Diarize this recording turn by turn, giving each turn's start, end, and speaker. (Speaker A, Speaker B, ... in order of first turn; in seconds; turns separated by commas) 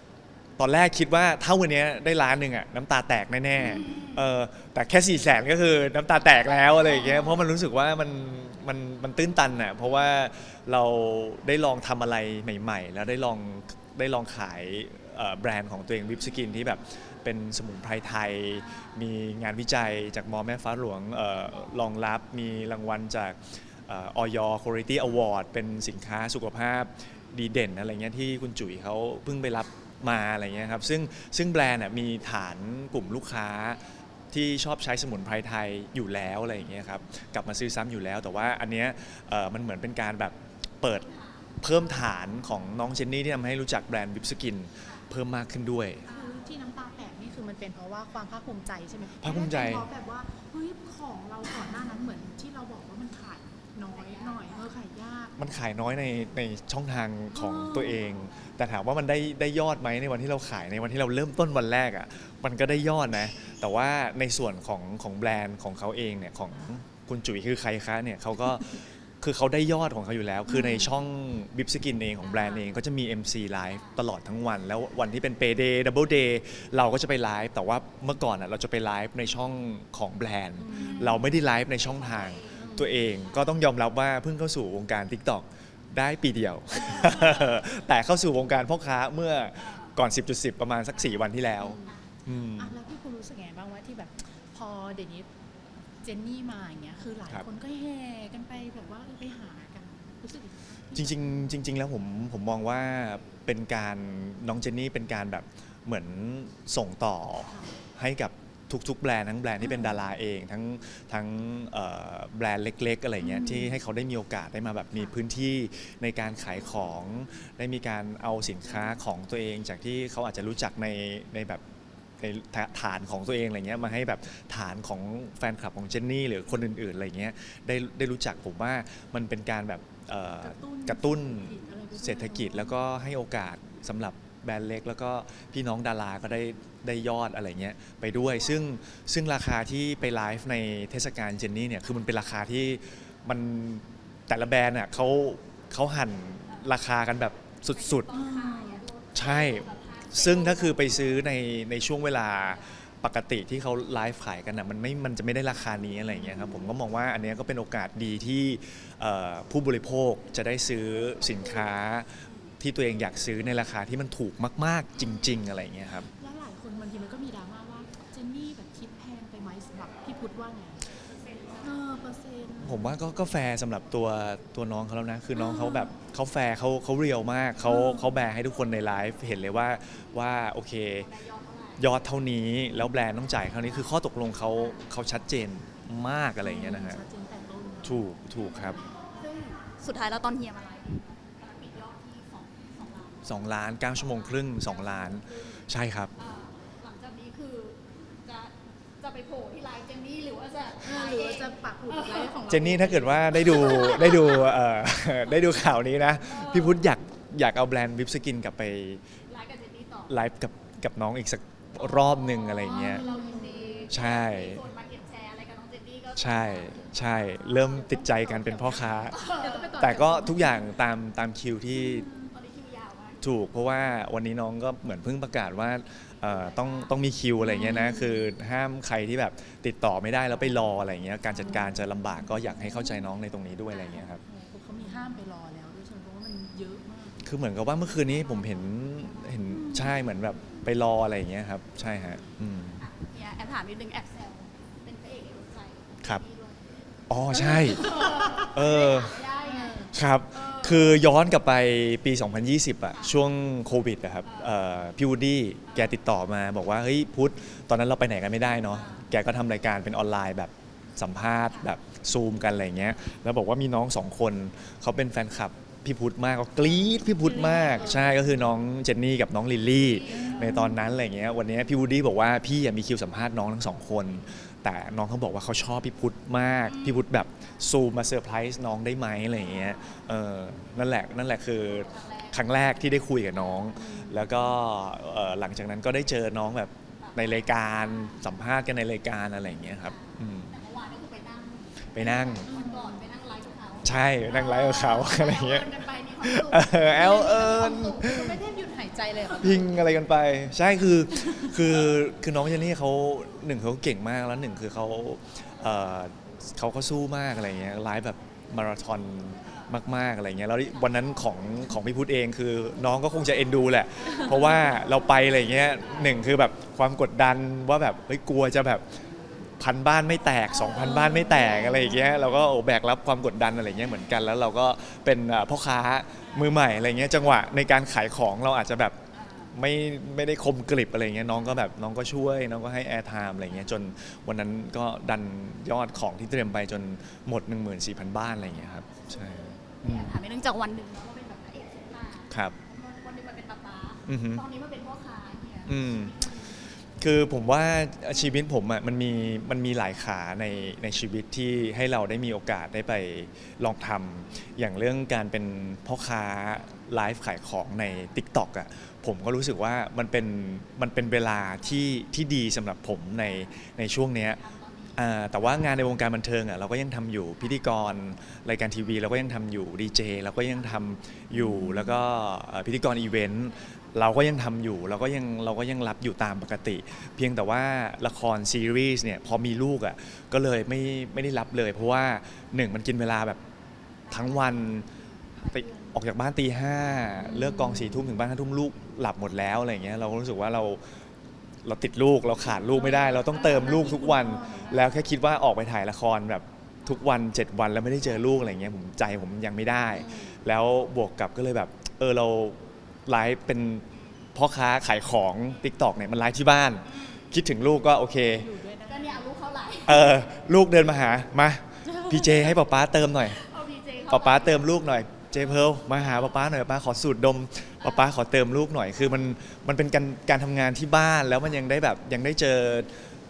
Speaker A: 0.6-41.1, Speaker B: 3.6-4.2, Speaker B: 41.1-41.4, Speaker A: 41.6-46.1, Speaker B: 46.1-46.3, Speaker C: 46.1-55.4, Speaker A: 49.2-49.9, Speaker B: 53.9-54.4, Speaker A: 55.4-92.8, Speaker C: 57.3-58.0, Speaker C: 70.5-70.9, Speaker B: 72.2-72.7, Speaker C: 80.6-81.2, Speaker B: 81.0-82.6, Speaker C: 82.5-83.1, Speaker B: 86.8-87.4, Speaker B: 89.6-89.9, Speaker C: 91.6-92.0, Speaker B: 91.8-92.1, Speaker C: 92.6-95.3, Speaker C: 96.0-101.6, Speaker A: 101.0-121.6, Speaker C: 107.5-107.7, Speaker C: 109.6-110.0, Speaker C: 113.2-113.8, Speaker A: 122.2-148.1, Speaker C: 130.4-132.8, Speaker B: 147.7-151.2, Speaker C: 148.1-148.8, Speaker A: 149.2-166.1, Speaker C: 156.1-156.7, Speaker C: 166.1-170.9, Speaker B: 171.3-171.6, Speaker C: 171.6-173.0, Speaker A: 172.6-181.2, Speaker C: 175.3-175.9, Speaker C: 177.7-178.1, Speaker B: 181.1-181.8, Speaker A: 181.8-187.0, Speaker C: 186.4-188.0, Speaker A: 187.8-188.8, Speaker B: 189.2-193.3, Speaker A: 193.2-196.1, Speaker B: 196.2-202.4, Speaker C: 200.8-203.9, Speaker A: 202.5-209.0, Speaker B: 203.5-204.5, Speaker B: 206.3-206.8, Speaker B: 209.3-210.1, Speaker A: 210.1-213.0, Speaker B: 211.8-216.9, Speaker C: 212.7-213.9, Speaker A: 213.9-214.6, Speaker A: 216.2-219.2, Speaker B: 217.5-219.9, Speaker C: 218.0-220.7, Speaker A: 219.8-222.1, Speaker C: 221.7-222.3, Speaker B: 222.3-223.2, Speaker A: 223.2-234.2, Speaker B: 226.2-227.0, Speaker C: 227.4-228.3, Speaker C: 231.4-233.0, Speaker B: 233.7-234.0, Speaker C: 234.1-237.2, Speaker A: 237.2-242.8, Speaker C: 239.5-240.1, Speaker B: 242.0-246.7, Speaker A: 247.1-249.2, Speaker B: 247.3-251.1, Speaker C: 247.3-248.4, Speaker C: 249.4-249.9, Speaker A: 249.9-290.6, Speaker B: 254.3-254.5, Speaker B: 255.7-256.0, Speaker B: 258.7-259.0, Speaker C: 267.3-268.2, Speaker B: 267.6-267.9, Speaker B: 270.1-270.5, Speaker C: 270.1-270.8, Speaker B: 281.7-282.7, Speaker C: 283.8-284.5, Speaker B: 287.0-288.2, Speaker B: 289.7-298.1, Speaker A: 291.9-292.5, Speaker C: 292.5-293.1, Speaker A: 293.8-298.4, Speaker C: 296.8-299.8, Speaker A: 299.4-318.8, Speaker C: 301.2-301.8, Speaker A: 319.6-329.0, Speaker B: 320.6-321.8, Speaker C: 320.9-322.4, Speaker A: 329.5-340.2, Speaker B: 339.7-346.6, Speaker A: 342.3-342.6, Speaker A: 344.1-344.4, Speaker A: 345.7-364.4, Speaker B: 364.4-365.0, Speaker A: 364.9-383.4, Speaker C: 371.3-372.0, Speaker A: 384.1-384.9, Speaker A: 385.4-390.8, Speaker C: 385.4-385.9, Speaker C: 387.2-388.0, Speaker A: 391.6-403.8, Speaker C: 392.7-394.9, Speaker A: 404.4-408.5, Speaker B: 406.9-407.2, Speaker C: 408.4-409.3, Speaker B: 408.9-410.1, Speaker A: 409.9-413.4, Speaker C: 411.9-412.5, Speaker B: 413.3-414.8, Speaker A: 414.1-422.9, Speaker B: 415.9-416.3, Speaker B: 417.8-418.1